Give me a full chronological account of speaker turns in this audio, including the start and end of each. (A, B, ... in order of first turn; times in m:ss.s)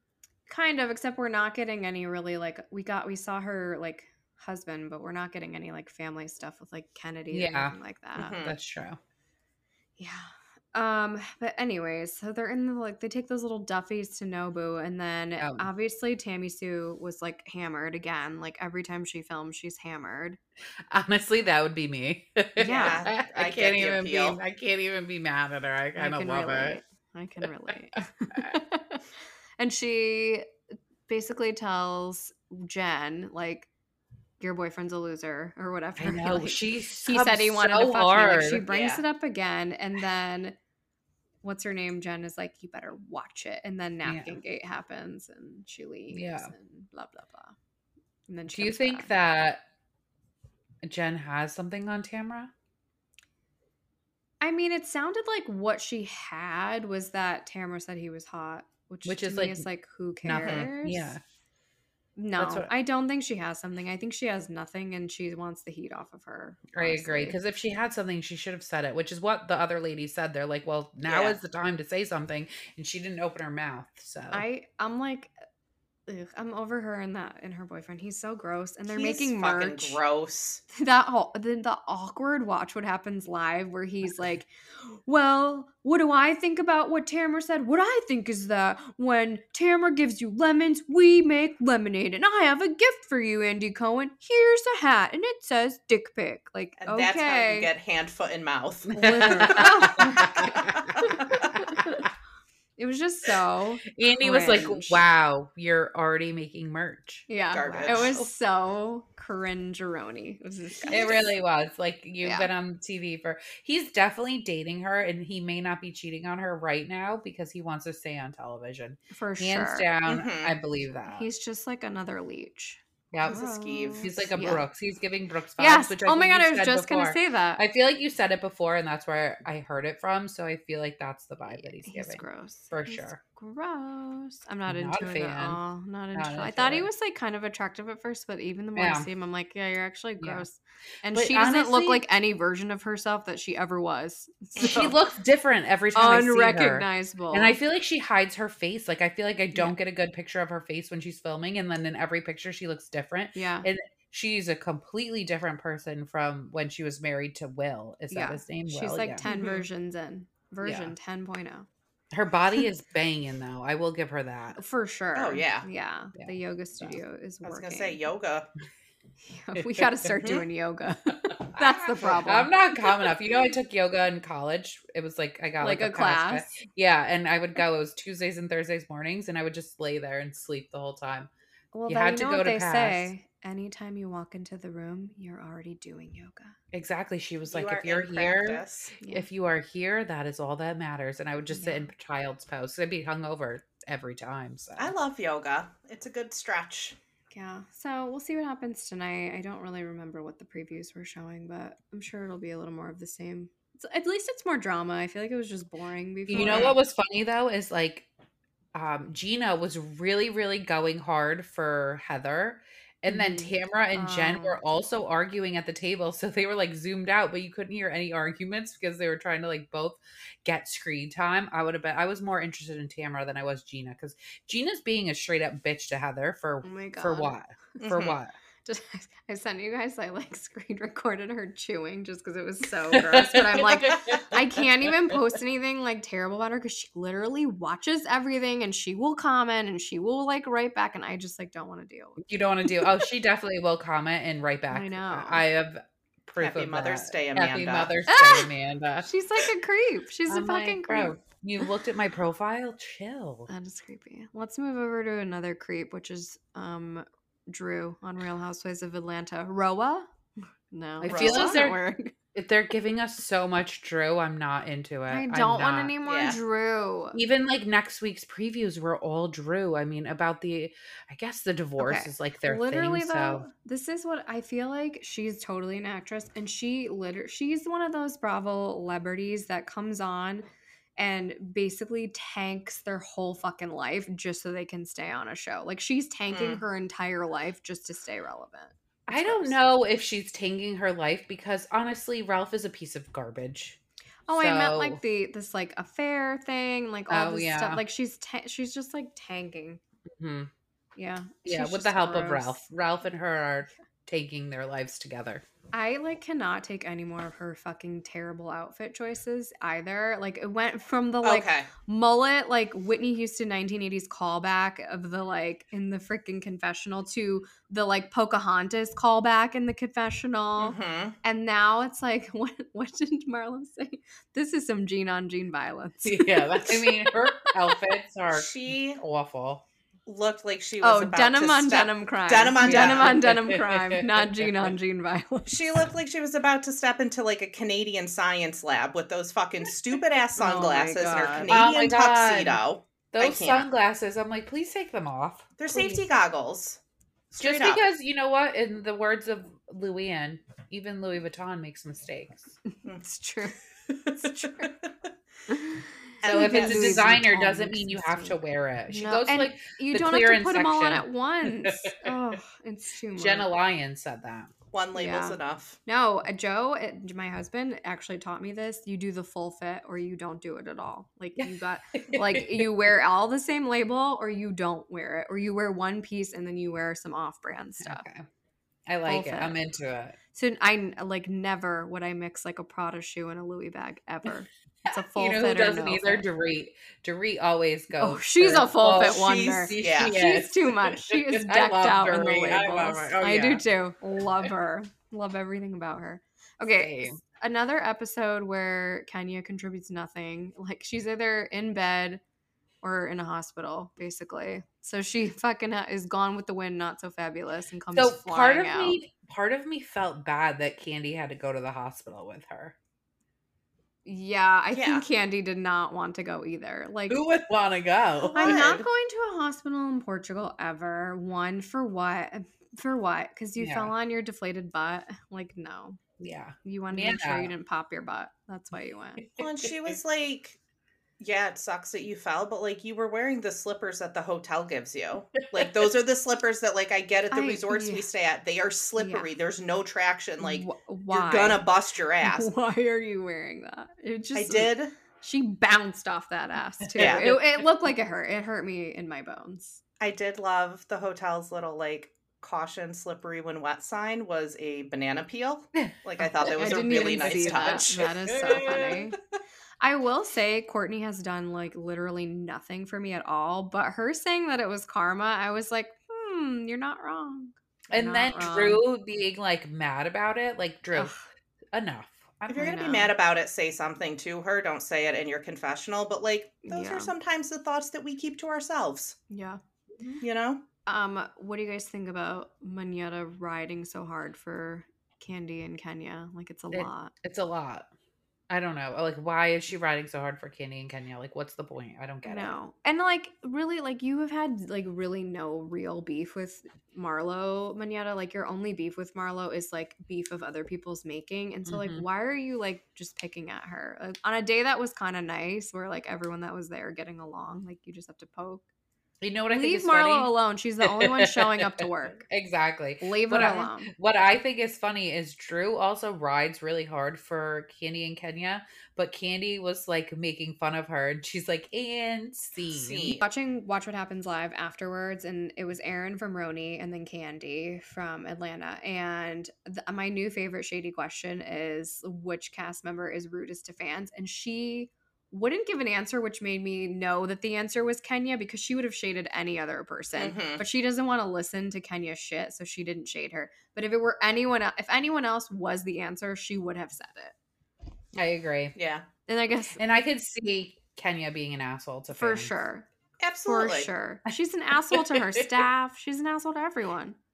0:00.5-0:08.4 A
0:07.3-0:07.8 B
0:08.2-0:08.6 C
0:08.3-0:09.0 B
0:10.0-0:20.4 A
0:15.4-0:15.7 B
0:20.9-0:26.8 B
0:22.6-0:23.1 A
0:22.6-0:24.4 C
0:26.0-0:29.0 A
0:29.6-0:30.5 A
0:31.1-0:33.7 A
0:34.4-0:40.6 A
0:36.0-0:38.6 B
0:38.7-0:39.0 C
0:41.4-0:47.5 A
0:44.0-0:44.4 B
0:46.1-0:46.5 B
0:48.3-0:49.1 A
0:48.5-0:49.6 B
0:50.8-0:52.5 B
0:54.4-1:01.2 A
0:59.0-0:59.7 B
1:00.2-1:01.2 B
1:00.3-1:00.7 C
1:02.2-1:07.4 A
1:02.4-1:02.7 B
1:06.7-1:14.4 B
1:11.0-1:11.4 C
1:14.3-1:15.3 A
1:16.1-1:20.0 A
1:18.9-1:20.6 C
1:20.7-1:37.7 A
1:36.8-1:41.5 C
1:38.9-1:41.6 B
1:38.9-1:42.1 A
1:42.8-1:45.0 A
1:43.9-1:47.3 B
1:47.3-1:51.3 A
1:47.5-1:48.2 C
1:47.9-1:48.2 B
1:50.9-2:01.3 B
1:52.2-1:52.5 A
1:59.1-1:59.9 A
2:00.1-2:00.6 C
2:01.1-2:04.7 A
2:03.1-2:03.4 B
2:03.2-2:04.1 C
2:04.0-2:13.2 B
2:05.6-2:07.6 A
2:11.6-2:25.0 A
2:14.6-2:15.6 B
2:16.1-2:16.9 B
2:18.8-2:19.1 B
2:21.1-2:22.0 B
2:24.6-2:39.2 B
2:25.9-2:27.6 A
2:33.3-2:33.7 A
2:38.1-2:41.7 A
2:39.2-2:39.6 C
2:40.6-2:40.9 B
2:42.1-2:44.6 B
2:44.6-2:48.0 A
2:45.1-2:45.7 C
2:46.2-2:47.0 B
2:47.4-2:48.5 C
2:49.2-2:52.5 A
2:49.6-2:49.9 B
2:50.2-2:50.4 C
2:51.6-3:01.3 B
2:55.6-2:56.5 A
3:01.7-3:06.5 A
3:01.9-3:03.1 B
3:06.7-3:14.9 B
3:07.5-3:08.9 C
3:09.0-3:09.2 A
3:11.5-3:11.9 A
3:14.8-3:17.0 C
3:17.3-3:26.8 A
3:26.3-3:28.1 B
3:26.4-3:26.7 C
3:28.7-3:48.3 B
3:33.1-3:34.6 A
3:46.6-3:47.3 A
3:47.8-3:48.2 C
3:48.6-4:02.2 A
3:52.9-3:55.2 B
4:02.2-4:09.4 B
4:04.7-4:05.4 A
4:06.4-4:07.9 C
4:08.1-4:11.1 A
4:10.3-4:13.5 B
4:13.5-4:20.1 A
4:20.7-4:22.1 A
4:21.0-4:21.8 B
4:21.1-4:21.6 C
4:22.3-4:25.9 B
4:25.1-4:27.2 A
4:26.0-4:26.4 C
4:27.1-4:33.5 B
4:31.8-4:49.6 A
4:46.3-4:46.6 C
4:49.1-4:55.0 B
4:54.3-4:59.8 A
4:57.1-4:57.8 B
5:00.2-5:00.5 B
5:01.0-5:02.6 A
5:01.4-5:05.4 B
5:05.7-5:27.5 A
5:11.2-5:11.7 C
5:20.6-5:21.2 C
5:26.0-5:29.6 B
5:28.3-5:29.0 C
5:30.0-5:33.2 C
5:30.8-5:35.7 A
5:32.6-5:34.7 B
5:35.4-5:43.7 C
5:40.4-5:41.6 A
5:41.5-5:42.6 B
5:43.1-5:46.0 B
5:45.6-5:46.8 C
5:47.3-5:47.8 C
5:47.4-5:52.6 B
5:52.7-5:54.7 A
5:54.1-5:54.9 C
5:55.5-6:03.5 A
5:56.2-5:57.1 C
5:56.2-6:02.2 B
6:03.2-6:04.5 B
6:04.7-6:05.8 C
6:04.9-6:18.0 A
6:11.4-6:12.9 B
6:17.8-6:18.3 B
6:18.9-6:20.2 B
6:19.0-6:19.6 A
6:20.3-6:26.2 A
6:24.8-6:33.6 B
6:27.9-6:42.2 A
6:29.2-6:30.2 C
6:36.8-6:37.2 B
6:42.8-6:49.0 A
6:47.9-6:52.7 B
6:54.0-6:57.2 A
6:54.7-6:55.0 C
6:57.1-6:58.7 B
6:58.3-6:58.8 C
6:58.3-7:06.0 A
7:03.6-7:03.9 B
7:06.2-7:07.5 B
7:06.6-7:09.2 A
7:09.2-7:09.9 B
7:09.4-7:10.6 C
7:11.2-7:22.5 C
7:15.4-7:15.7 B
7:17.3-7:18.1 A
7:19.0-7:19.3 A
7:20.4-7:21.6 A
7:22.2-7:29.8 A
7:24.3-7:24.9 C
7:26.9-7:27.6 B
7:27.0-7:27.3 C
7:30.0-7:39.0 C
7:35.8-7:39.0 B
7:36.5-7:39.2 A
7:39.8-7:48.8 A
7:47.9-7:51.1 B
7:50.9-7:51.2 A
7:51.7-7:52.8 B
7:52.5-7:59.2 C
7:52.5-7:53.1 A
7:56.6-7:57.1 A
7:59.3-8:00.2 A
8:00.2-8:00.6 C
8:00.8-8:07.1 A
8:06.7-8:07.9 B
8:08.5-8:12.5 B
8:12.2-8:28.6 A
8:21.7-8:22.0 B
8:29.2-8:43.2 B
8:29.5-8:32.2 A
8:33.0-8:33.9 A
8:42.7-8:43.2 C
8:43.1-9:07.3 A
9:00.2-9:00.6 C
9:08.1-9:08.7 B
9:08.8-9:09.0 C
9:09.3-9:09.8 A
9:09.8-9:12.5 B
9:12.1-9:12.9 A
9:13.2-9:13.9 C
9:13.4-9:17.2 A
9:14.9-9:15.6 B